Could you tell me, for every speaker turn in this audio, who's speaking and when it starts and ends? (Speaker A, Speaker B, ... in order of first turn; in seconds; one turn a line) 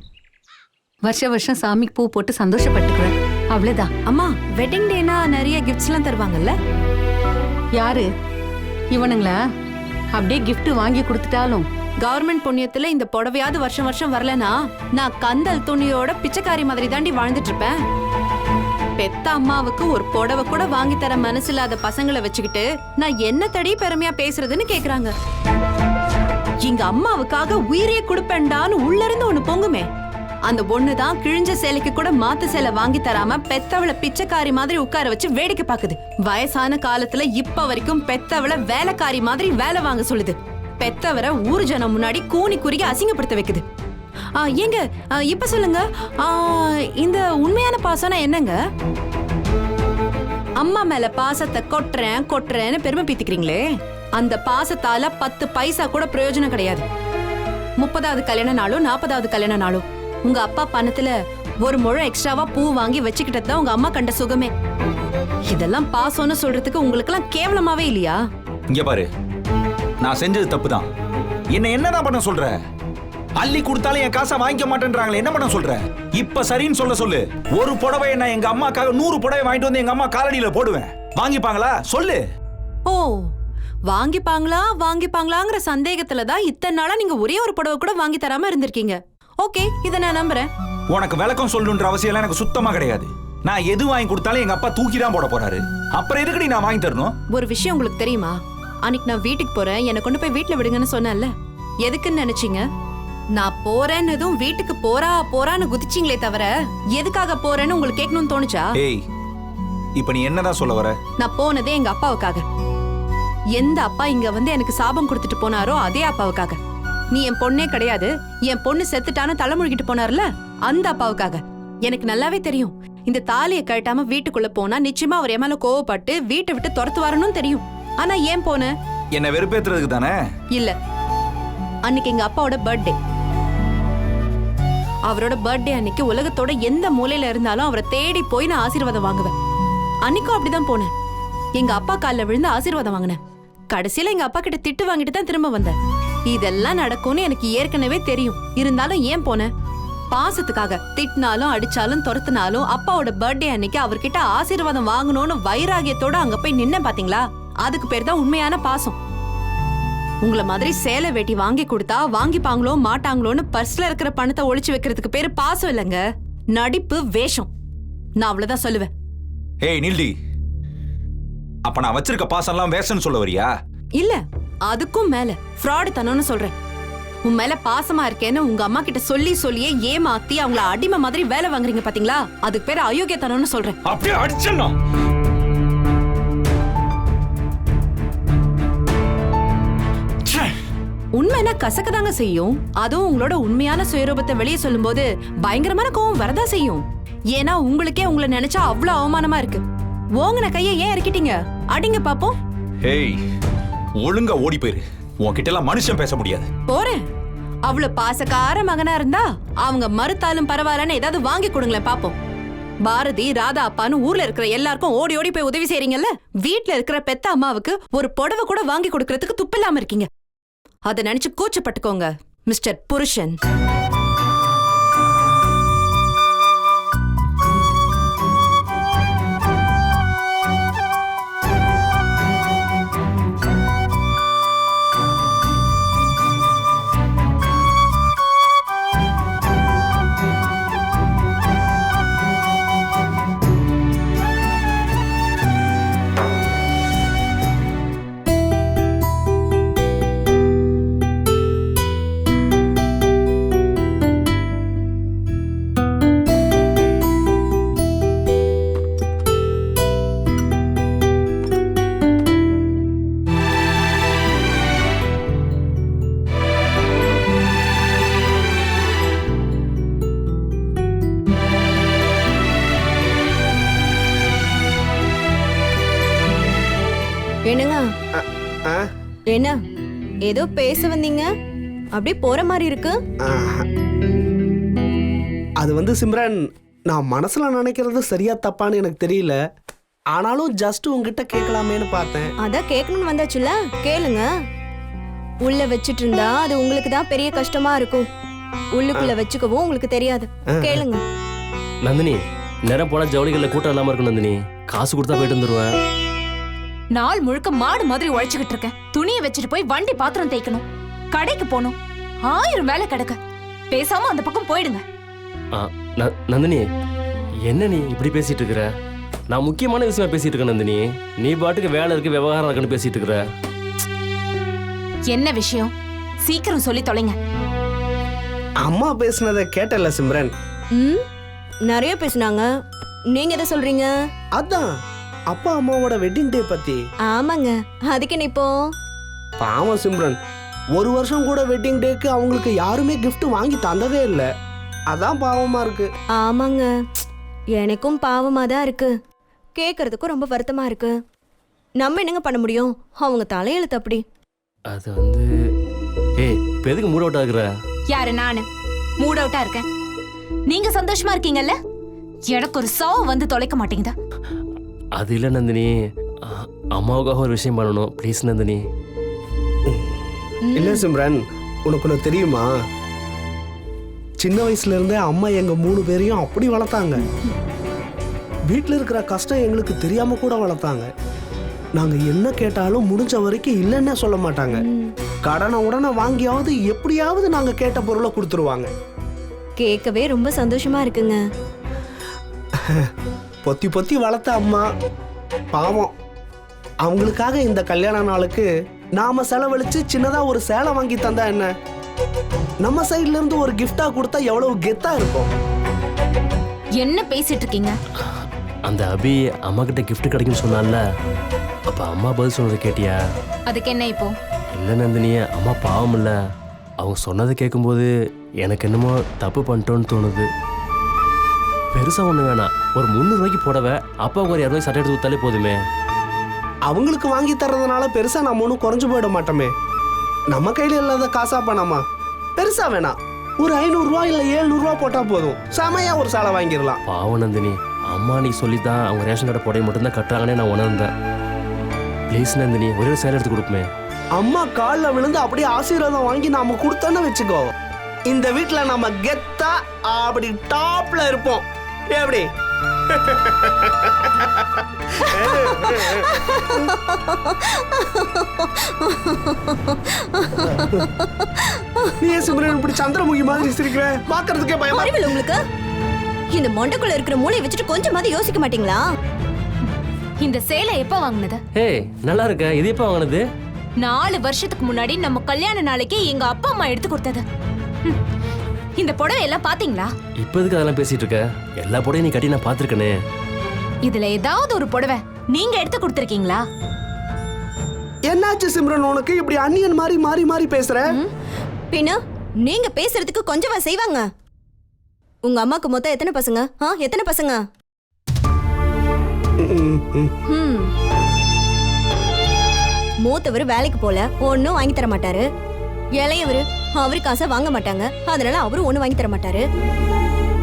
Speaker A: 1.0-3.9
Speaker B: 4.1-6.5
Speaker A: 7.8-8.1
Speaker A: 8.9-9.4
Speaker A: 10.1-11.7
Speaker B: 12.0-17.8
Speaker B: 19.0-25.1
Speaker B: 26.6-29.9
Speaker B: 30.5-43.6
Speaker B: 44.4-48.6
Speaker B: 50.6-53.7
Speaker B: 54.2-56.9
Speaker B: 57.8-64.5
Speaker B: 65.5-68.2
Speaker C: 68.7-69.1
Speaker C: 70.0-70.9
Speaker C: 71.5-72.6
Speaker C: 73.4-82.2
Speaker B: 82.9-83.2
Speaker B: 83.9-90.5
Speaker C: 90.9-97.1
Speaker B: 97.3-101.3
Speaker B: 101.8-102.6
Speaker B: 103.3-108.6
Speaker C: 110.0-111.0
Speaker B: 111.2-112.4
Speaker B: 113.6-116.6
Speaker B: 117.1-128.7
Speaker C: 129.1-130.2
Speaker B: 131.9-132.9
Speaker B: 135.1-139.3
Speaker B: 140.1-140.9
Speaker B: 141.6-143.2
Speaker B: 143.7-145.7
Speaker B: 146.3-149.5
Speaker B: 150.1-159.0
Speaker B: 160.2-166.0
Speaker B: 166.6-167.5
Speaker B: 168.2-168.9
Speaker C: 169.6-170.1
Speaker C: 171.7-173.5
Speaker B: 174.0-176.5
Speaker B: 177.3-183.7
Speaker C: 183.8-184.7
Speaker C: 190.3-190.5
Speaker B: 191.2-199.6
Speaker B: 200.2-202.4
Speaker C: 202.8-203.2
Speaker C: 204.0-206.5
Speaker B: 206.7-207.0
Speaker B: 207.7-212.2
Speaker B: 212.8-220.1
Speaker B: 220.9-223.4
Speaker D: 277.5-277.9
Speaker E: 278.1-278.9
Speaker D: 280.2-281.3
Speaker D: 281.9-283.0
Speaker E: 283.2-283.7
Speaker E: 285.6-289.4
Speaker E: 290.1-292.3
Speaker D: 292.4-294.3
Speaker D: 295.4-298.1
Speaker D: 298.8-301.0
Speaker F: 301.8-305.7
Speaker G: 306.9-313.2
Speaker G: 313.7-314.8
Speaker F: 315.6-316.6
Speaker F: 317.4-318.7
Speaker F: 319.3-323.2
Speaker G: 325.1-327.2
Speaker E: 328.6-330.3
Speaker D: 330.7-331.0
Speaker D: 331.7-332.5
Speaker D: 333.1-333.9
Speaker E: 334.4-334.7
Speaker E: 335.3-336.8
Speaker D: 337.1-338.5
Speaker E: 339.4-340.2
Speaker E: 340.8-344.3
Speaker E: 344.9-345.9
Speaker D: 346.2-346.7
Speaker D: 347.6-348.9
Speaker D: 349.6-350.9
Speaker D: 351.8-354.0
Speaker F: 354.7-355.3
Speaker F: 356.2-357.5
Speaker G: 357.9-358.5
Speaker G: 359.0-359.7
Speaker G: 360.5-361.6
Speaker G: 362.3-363.9
Speaker F: 365.0-365.7
Speaker F: 366.2-368.6
Speaker E: 370.6-372.5
Speaker E: 374.2-377.0
Speaker E: 378.5-380.9
Speaker E: 381.8-384.6
Speaker D: 384.6-384.9
Speaker E: 385.3-388.7
Speaker D: 389.6-391.2
Speaker E: 393.4-394.7
Speaker E: 395.5-395.9
Speaker E: 396.9-401.5
Speaker E: 402.6-405.3
Speaker G: 406.8-407.8
Speaker F: 408.7-410.8
Speaker F: 411.7-413.0
Speaker G: 413.5-414.1
Speaker F: 414.6-416.1
Speaker F: 416.8-417.9
Speaker F: 418.4-420.3
Speaker F: 421.7-425.6
Speaker E: 426.7-429.5
Speaker E: 430.3-431.8
Speaker E: 432.4-436.8
Speaker F: 436.9-440.9
Speaker F: 442.1-443.7
Speaker E: 444.2-447.5
Speaker E: 448.1-452.3
Speaker E: 452.9-454.6
Speaker D: 455.1-461.9
Speaker E: 455.1-456.1
Speaker E: 462.0-465.0
Speaker D: 464.7-465.4
Speaker D: 466.3-468.8
Speaker G: 470.2-471.4
Speaker F: 471.6-473.2
Speaker G: 473.8-477.2
Speaker G: 478.8-479.9
Speaker F: 480.2-482.9
Speaker G: 483.9-486.4
Speaker E: 488.1-490.8
Speaker D: 491.7-494.0
Speaker D: 495.2-497.4
Speaker E: 499.4-500.1
Speaker D: 500.3-500.7
Speaker D: 503.0-505.2
Speaker D: 506.0-509.4